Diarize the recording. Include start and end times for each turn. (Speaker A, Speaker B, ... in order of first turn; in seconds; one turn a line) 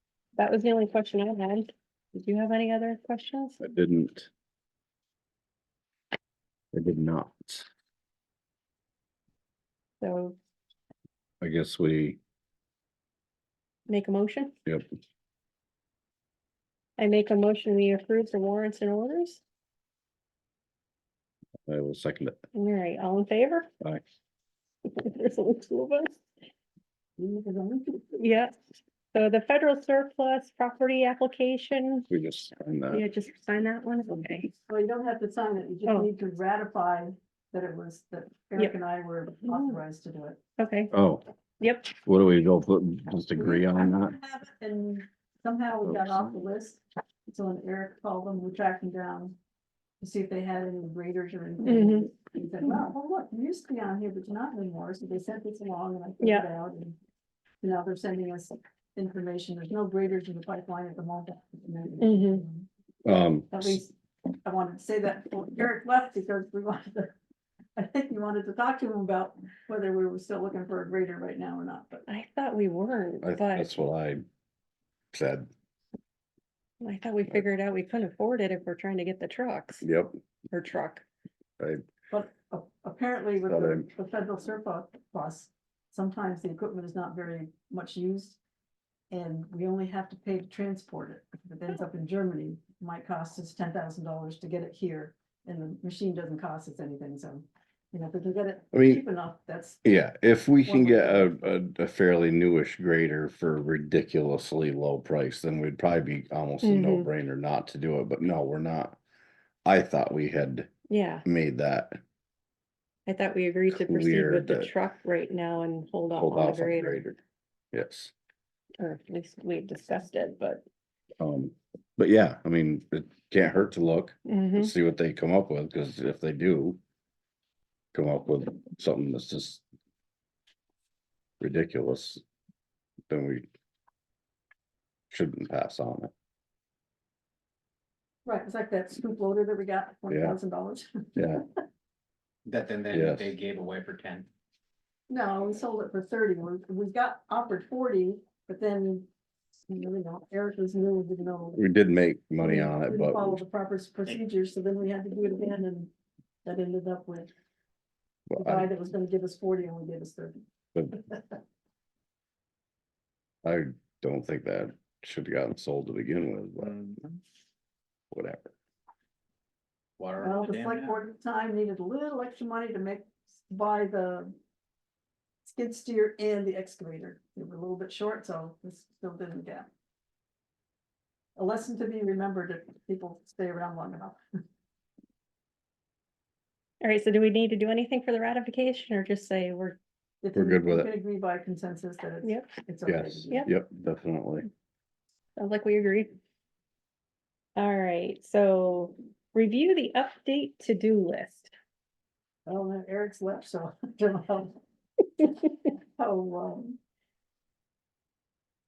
Speaker A: 0.3-3.6
Speaker B: 3.6-4.3
Speaker B: 6.7-7.7
Speaker A: 10.0-10.3
Speaker B: 11.4-12.2
Speaker A: 13.9-14.5
Speaker A: 17.0-19.4
Speaker B: 21.6-22.4
Speaker A: 22.5-23.7
Speaker A: 24.8-26.2
Speaker C: 27.2-28.2
Speaker A: 28.1-28.6
Speaker A: 29.1-32.1
Speaker B: 32.1-33.0
Speaker A: 32.9-34.5
Speaker C: 34.7-40.4
Speaker A: 39.5-39.8
Speaker A: 40.6-40.9
Speaker B: 40.9-41.2
Speaker A: 41.6-41.9
Speaker B: 42.0-44.1
Speaker C: 43.4-49.3
Speaker B: 45.9-46.2
Speaker C: 50.0-57.0
Speaker A: 51.6-52.1
Speaker A: 56.2-56.5
Speaker C: 57.6-62.7
Speaker A: 62.0-62.4
Speaker B: 63.0-63.8
Speaker C: 63.5-67.1
Speaker C: 67.8-72.0
Speaker A: 72.1-73.7
Speaker B: 73.2-74.2
Speaker B: 75.1-75.5
Speaker A: 76.8-79.8
Speaker B: 79.8-80.2
Speaker A: 80.5-81.0
Speaker C: 82.1-88.4
Speaker B: 83.5-83.9
Speaker C: 89.1-99.8
Speaker B: 98.7-99.0
Speaker B: 99.8-109.0
Speaker C: 100.6-101.5
Speaker A: 106.6-107.1
Speaker B: 109.6-110.7
Speaker A: 110.9-111.2
Speaker B: 111.2-112.0
Speaker A: 113.1-117.0
Speaker B: 113.7-114.7
Speaker B: 116.2-117.2
Speaker B: 117.7-118.1
Speaker A: 118.8-120.6
Speaker B: 121.2-126.8
Speaker A: 124.2-124.7
Speaker B: 127.9-129.6
Speaker B: 131.4-132.2
Speaker B: 133.1-133.5
Speaker B: 135.1-136.1
Speaker C: 138.2-141.4
Speaker B: 140.1-140.3
Speaker B: 141.2-141.4
Speaker D: 142.5-144.3
Speaker B: 142.9-143.3
Speaker C: 145.1-149.1
Speaker C: 149.7-151.6
Speaker B: 151.6-153.4
Speaker C: 152.4-155.9
Speaker C: 156.4-157.3
Speaker B: 158.3-158.7
Speaker C: 158.4-160.4
Speaker C: 160.9-161.3
Speaker B: 163.4-166.8
Speaker D: 166.7-167.2
Speaker B: 168.1-168.5
Speaker D: 170.0-170.9
Speaker C: 170.2-174.3
Speaker C: 175.4-179.7
Speaker C: 181.3-184.2
Speaker A: 186.8-189.8
Speaker C: 190.2-193.5
Speaker B: 190.3-190.9
Speaker A: 192.2-192.5
Speaker B: 192.8-194.4
Speaker A: 195.4-196.1
Speaker A: 197.6-201.5
Speaker C: 202.4-204.6
Speaker C: 205.2-206.8